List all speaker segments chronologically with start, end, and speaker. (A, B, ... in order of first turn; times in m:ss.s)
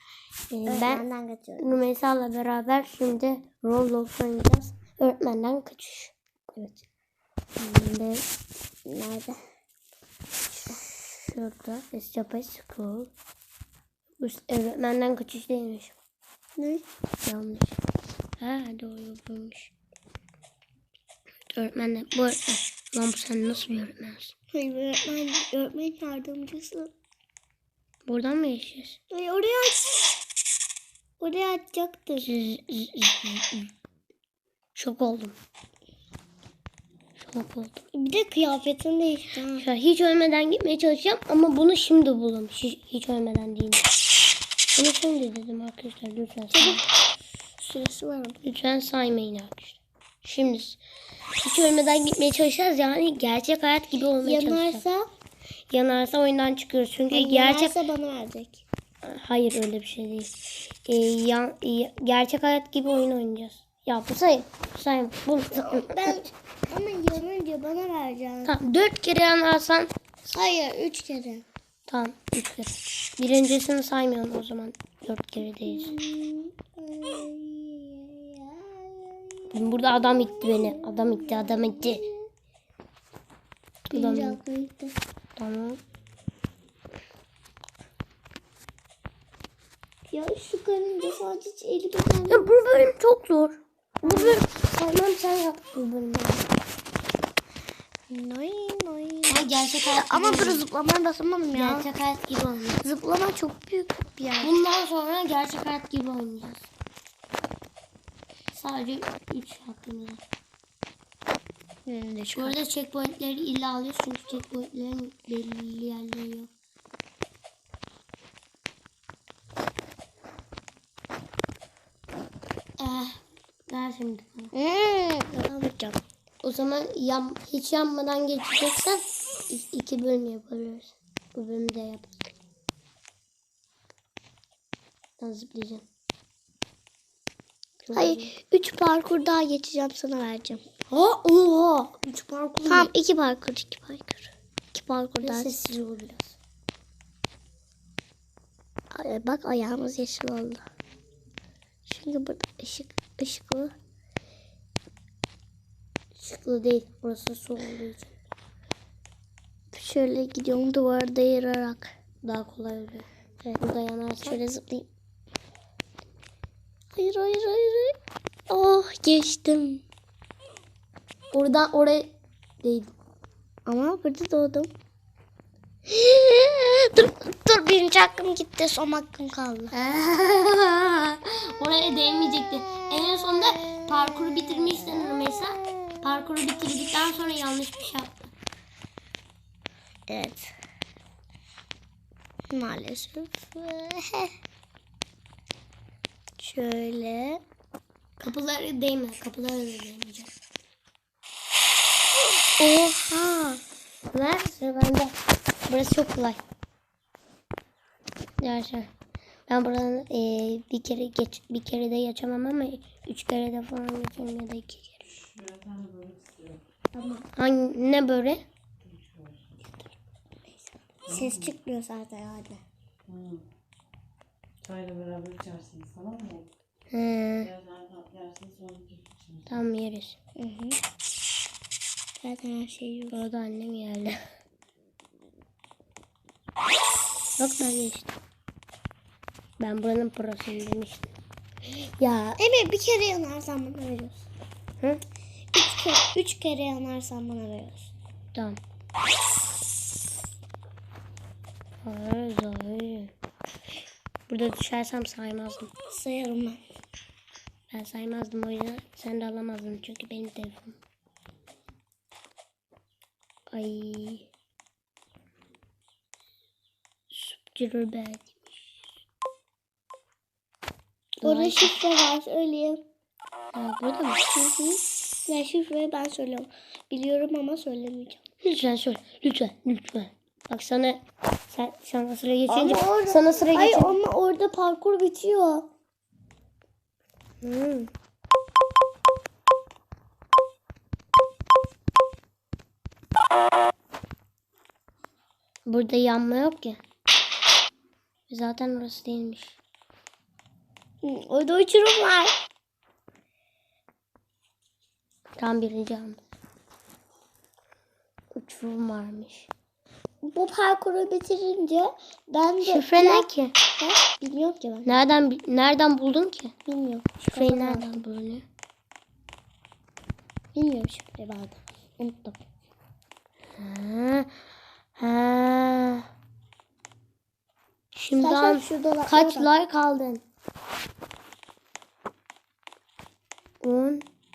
0:00.5-0:01.1 A
0:00.7-0:01.8 B
0:01.6-0:06.8 A
0:07.6-0:08.3 A
0:08.9-0:09.4 B
0:10.7-0:13.1 A
0:14.2-0:15.9 A
0:16.6-0:16.8 B
0:17.2-0:17.8 A
0:18.4-0:19.7 A
0:21.5-0:24.3 A
0:24.5-0:26.9 B
0:28.0-0:29.0 A
0:29.1-0:30.0 B
0:31.2-0:32.3 B
0:32.2-0:33.7 A
0:34.7-0:35.4 A
0:37.2-0:37.8 A
0:37.9-0:39.6 B
0:39.6-0:43.9 A
0:44.7-0:46.8 A
0:46.5-0:46.8 B
0:47.6-0:48.4 B
0:48.4-0:50.8 A
0:51.4-0:54.8 A
0:54.2-0:55.0 B
0:55.7-0:57.8 A
0:57.1-0:58.6 B
0:59.0-1:00.3 A
1:00.8-1:06.2 A
1:05.6-1:08.5 B
1:08.4-1:09.9 A
1:10.2-1:11.4 B
1:11.9-1:16.0 A
1:15.6-1:22.2 B
1:19.5-1:22.0 A
1:23.9-1:24.4 A
1:23.9-1:25.0 B
1:25.4-1:25.8 A
1:30.1-1:32.6 B
1:32.3-1:36.4 A
1:34.0-1:34.4 B
1:38.1-1:41.9 B
1:39.3-1:40.6 A
1:41.5-1:42.8 A
1:42.8-1:44.6 B
1:44.4-1:46.7 A
1:48.5-1:50.2 A
1:51.9-1:52.6 B
1:52.3-1:56.5 A
2:02.8-2:04.5 A
2:04.5-2:06.0 B
2:06.4-2:12.3 A
2:15.2-2:15.8 A
2:17.8-2:18.3 A
2:17.9-2:20.6 B
2:20.9-2:22.9 A
2:22.7-2:25.7 B
2:25.2-2:26.4 A
2:28.9-2:30.6 B
2:31.9-2:33.7 B
2:36.2-2:38.1 A
2:39.7-2:41.9 B
2:42.2-2:44.4 A
2:44.2-2:44.9 B
2:46.9-2:48.0 B
2:48.5-2:49.8 B
2:51.3-2:52.9 A
2:53.7-2:54.7 B
2:55.9-2:59.8 B
2:59.7-3:08.3 A
3:10.1-3:10.5 B
3:12.5-3:14.3 B
3:16.4-3:17.4 B
3:18.2-3:20.3 A
3:22.6-3:23.6 B
3:24.1-3:25.2 A
3:25.7-3:26.4 A
3:28.4-3:28.9 A
3:29.5-3:35.2 A
3:35.4-3:36.5 C
3:36.9-3:37.2 B
3:37.4-3:38.4 A
3:40.5-3:42.6 B
3:44.7-3:46.4 C
3:46.9-3:47.6 A
3:47.8-3:48.9 C
3:49.5-3:50.2 A
3:50.4-3:50.8 B
3:52.2-3:53.2 B
3:53.1-3:54.2 A
3:57.4-3:58.2 A
3:59.6-4:01.1 A
4:01.7-4:02.4 A
4:02.4-4:04.3 B
4:05.5-4:07.9 B
4:08.3-4:08.6 A
4:11.8-4:13.1 A
4:14.3-4:15.7 A
4:15.9-4:16.6 B
4:17.7-4:20.8 A
4:23.5-4:24.3 A
4:27.1-4:28.8 A
4:31.2-4:31.8 A
4:31.2-4:32.8 B
4:33.5-4:34.2 A
4:34.3-4:38.2 B
4:38.4-4:44.0 A
4:42.5-4:45.7 B
4:47.4-4:47.9 A
4:55.6-4:56.8 A
4:58.3-4:59.6 A
5:01.0-5:02.3 B
5:05.4-5:06.2 A
5:08.3-5:09.5 A
5:10.2-5:14.9 B
5:12.6-5:13.5 A
5:14.8-5:16.5 A
5:16.7-5:18.0 B
5:17.2-5:18.4 A
5:20.5-5:22.4 B
5:23.6-5:24.3 A
5:25.0-5:26.1 A
5:27.9-5:30.2 A
5:28.2-5:29.5 B
5:33.6-5:34.0 A